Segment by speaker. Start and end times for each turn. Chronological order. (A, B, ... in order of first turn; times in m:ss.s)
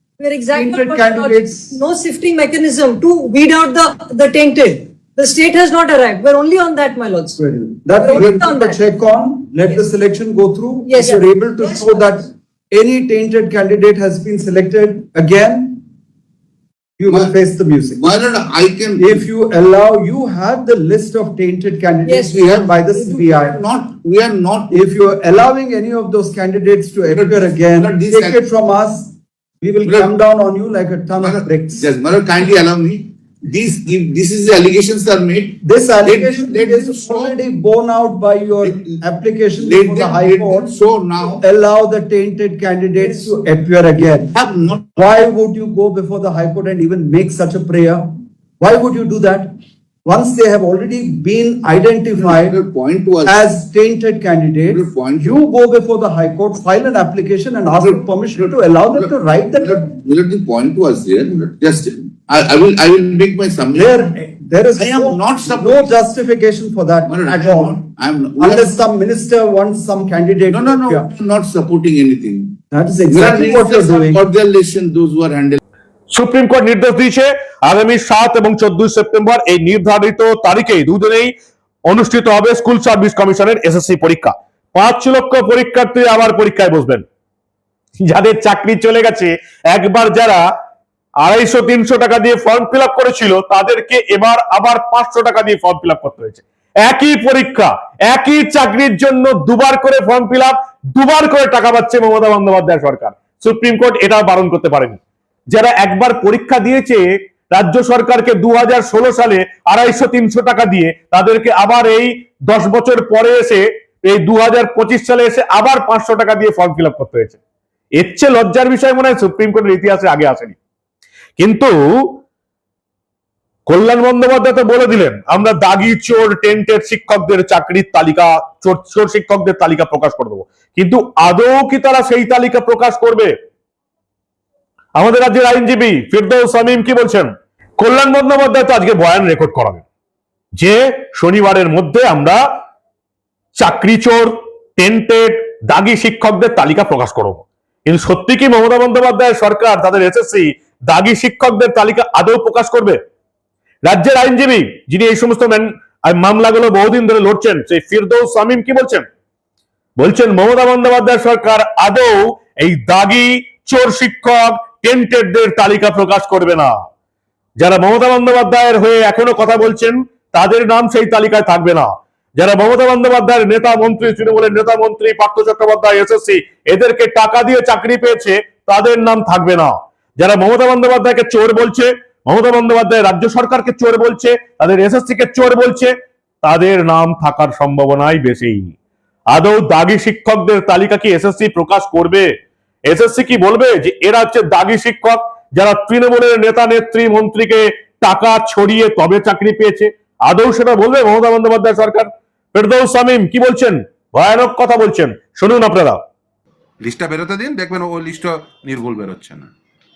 0:00.2-0:07.4 A
0:00.5-0:01.8 B
0:07.4-0:15.8 B
0:08.0-0:08.8 A
0:08.2-0:08.5 C
0:10.9-0:12.1 A
0:17.0-0:18.0 B
0:18.0-0:19.2 C
0:19.0-0:23.6 B
0:22.0-0:22.4 A
0:22.1-0:24.8 C
0:24.7-0:31.9 B
0:27.0-0:28.4 C
0:29.8-0:30.1 C
0:31.2-0:37.4 C
0:35.6-0:40.7 B
0:38.6-0:39.0 C
0:39.6-0:41.4 C
0:41.3-0:44.3 B
0:44.0-0:44.9 C
0:45.0-0:48.0 B
0:48.6-0:49.5 B
0:50.0-0:52.6 B
0:52.2-0:53.4 C
0:53.3-0:59.9 B
0:54.7-0:55.4 C
0:57.8-1:04.2 C
1:03.8-1:07.8 B
1:04.8-1:05.9 C
1:07.1-1:08.8 C
1:08.4-1:11.1 B
1:10.5-1:12.6 C
1:12.7-1:14.2 B
1:13.1-1:15.6 C
1:16.1-1:21.3 D
1:21.8-1:27.1 D
1:28.0-1:30.4 D
1:31.2-1:57.4 D
1:58.0-2:00.6 D
2:01.4-2:02.2 D
2:03.7-2:13.3 D
2:15.0-2:19.8 D
2:20.6-2:22.4 D
2:23.6-2:33.0 D
2:33.8-2:39.1 D
2:40.0-2:46.7 D
2:47.6-3:08.8 D
3:09.3-3:26.0 D
3:26.8-3:29.5 E